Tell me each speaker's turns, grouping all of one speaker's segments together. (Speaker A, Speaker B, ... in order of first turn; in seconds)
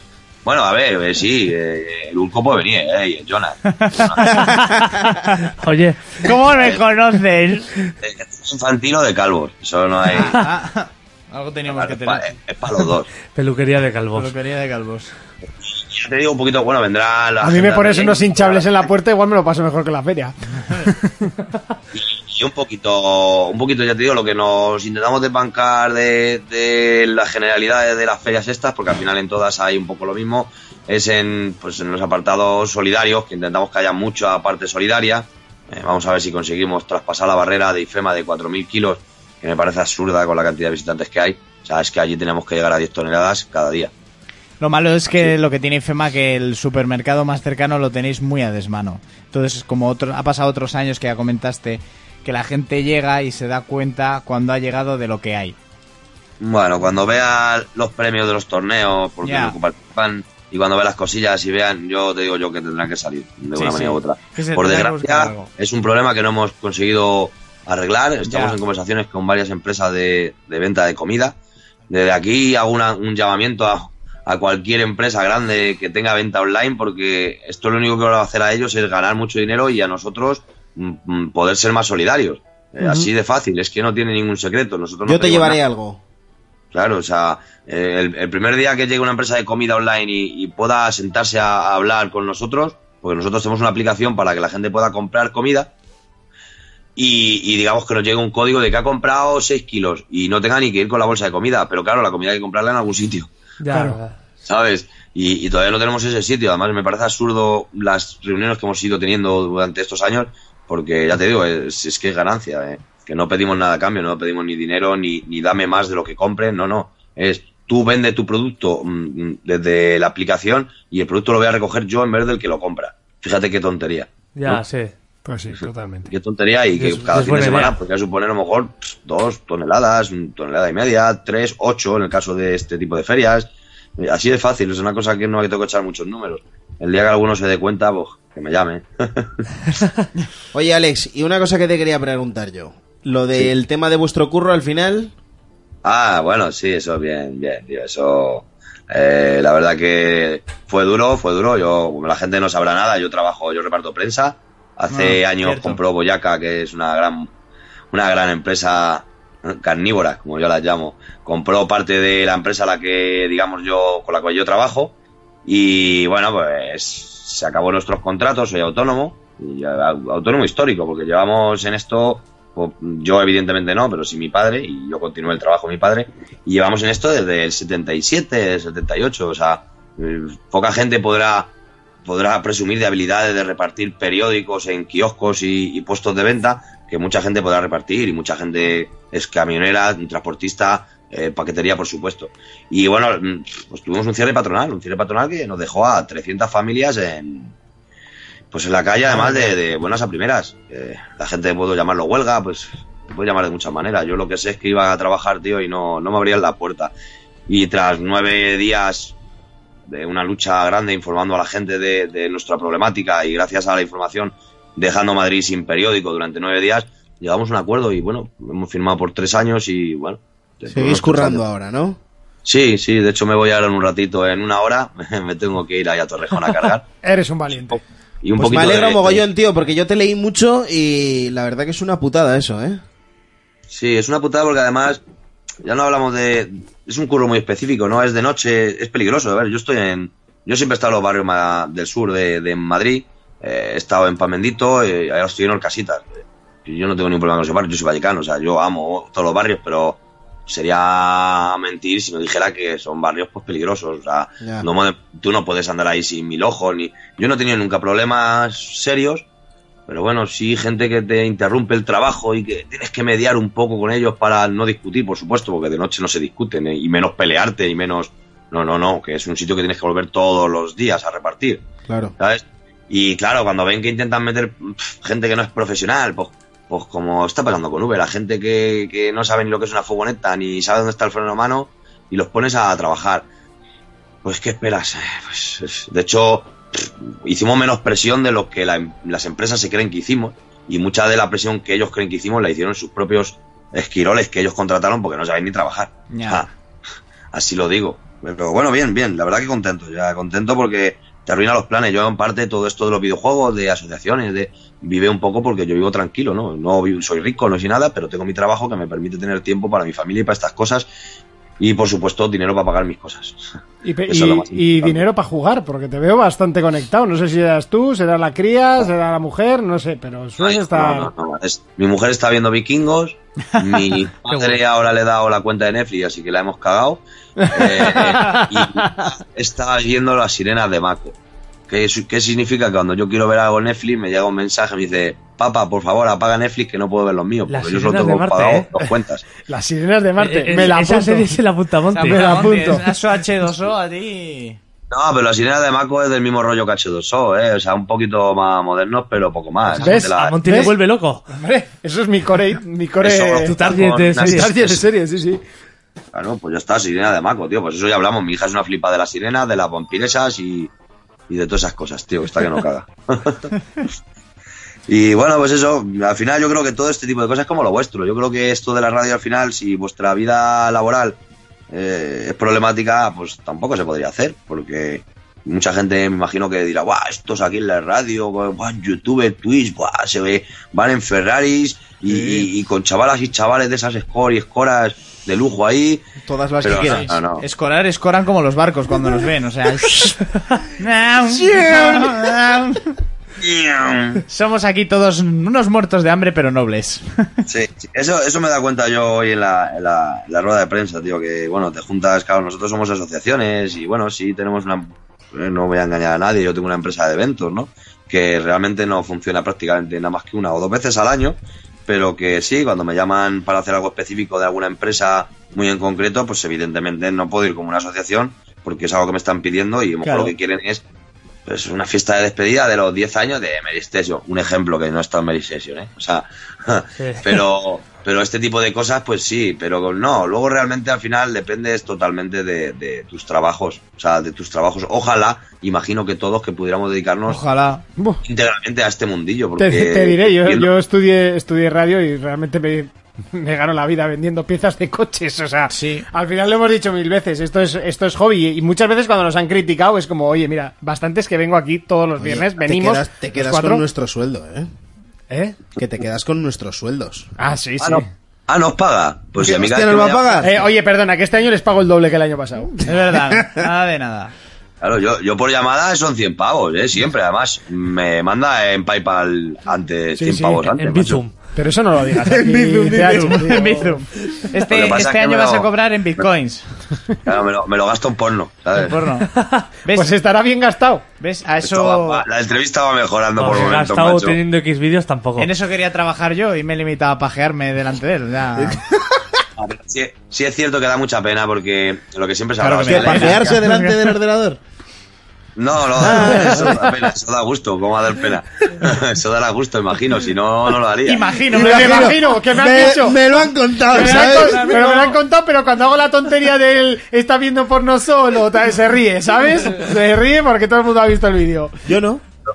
Speaker A: 0.4-4.5, 6.5-6.8, 8.0-10.3, 11.7-13.1, 15.6-18.8, 21.9-43.9, 45.1-45.3, 56.4-71.4, 71.9-85.6, 86.7-95.7, 97.0-103.3, 104.4-124.6, 126.1-139.4, 145.8-157.3, 157.9-181.5, 182.0-197.5, 198.5-206.9, 207.5-209.1, 209.9-221.4, 222.4-226.8, 227.5-229.2, 233.7-235.0, 235.6-246.1, 246.6-259.2, 259.9-271.6, 272.2-283.2, 284.2-296.5, 297.3-310.9, 311.6-313.4, 314.1-315.0, 320.4-331.1, 331.7-339.2, 344.9-350.8, 353.0-354.8, 356.1-360.7, 361.3-363.5, 364.9-371.2, 371.7-386.0, 386.6-387.4, 393.4-394.2, 397.5-420.8, 421.4-437.4, 438.2-440.7, 457.8-460.4, 464.8-471.2, 474.6-475.7, 477.2-479.0, 481.6-484.4, 489.6-493.5, 495.6-501.4
Speaker B: 3.7-4.6, 6.2-7.7, 10.1-12.3, 14.1-15.1, 44.6-55.5, 59.2-59.5, 63.5-65.5, 68.3-68.6, 154.9-155.8, 199.2-199.4, 296.1-296.4, 324.3-324.5, 341.9-344.6, 382.1-382.4, 386.7-390.3, 390.8-392.8, 394.3-397.3, 420.0-420.3, 437.3-437.8, 445.7-446.1, 462.8-464.3, 473.1-476.6, 478.7-479.3, 479.8-480.1, 481.2-482.2, 485.4-488.8, 492.6-494.1, 501.1-502.2, 503.9-505.1
Speaker C: 4.3-6.3, 13.3-14.3, 103.6-104.2, 124.3-124.9, 126.8-127.8, 337.5-338.7, 340.2-342.6, 349.7-351.2, 353.5-354.5, 427.0-427.4, 470.7-471.3, 479.3-479.7, 483.4-485.5
Speaker D: 17.4-21.3, 82.8-83.1, 103.7-104.0, 125.2-126.1, 227.0-227.8, 313.8-321.1, 327.4-329.1, 339.5-341.3, 342.1-342.8, 349.8-350.7, 351.3-353.6, 354.1-355.4, 439.6-453.8, 455.3-455.6, 457.4-458.1, 460.4-462.9, 470.2-470.6, 471.5-473.8, 479.9-481.0, 501.5-503.2, 503.9-511.7
Speaker E: 85.0-86.0, 140.5-145.1, 220.7-222.0, 228.4-232.8, 271.9-272.1, 386.2-387.1, 391.3-392.3, 452.2-454.7, 455.8-457.3, 459.4-460.5, 472.2-473.9, 488.6-489.2, 492.8-494.6, 496.0-496.9, 501.5-504.9, 511.9-512.2